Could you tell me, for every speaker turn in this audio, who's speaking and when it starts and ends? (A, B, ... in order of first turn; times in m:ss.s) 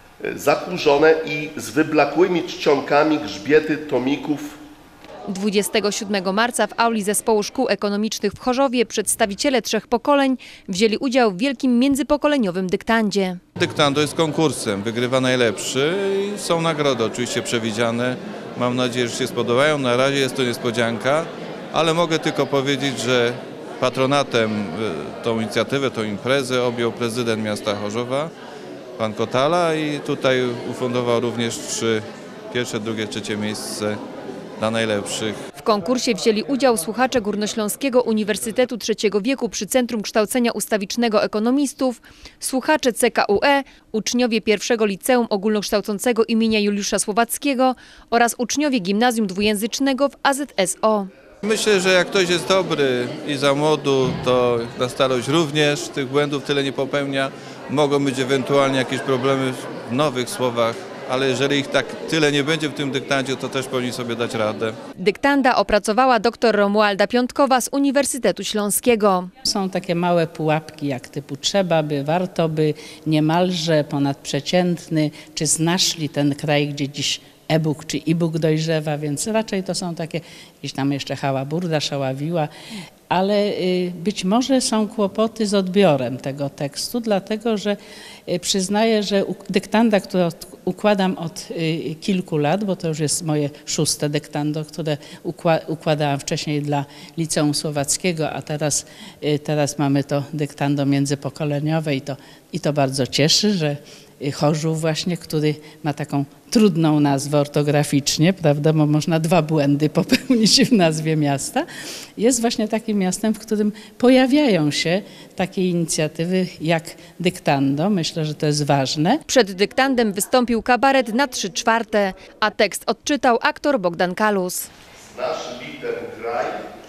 0:00.2-0:04.6 A
0:05.3-0:13.4 B
0:13.6-0:28.3 C
0:29.0-0:34.0 C
0:34.6-0:35.4 C
0:35.5-0:51.1 B
0:51.4-1:04.7 C
1:05.0-1:09.3 B
1:09.4-1:22.5 D
1:23.1-1:51.6 D
1:52.2-1:59.2 D
1:59.3-2:04.7 B
2:05.0-2:06.7 A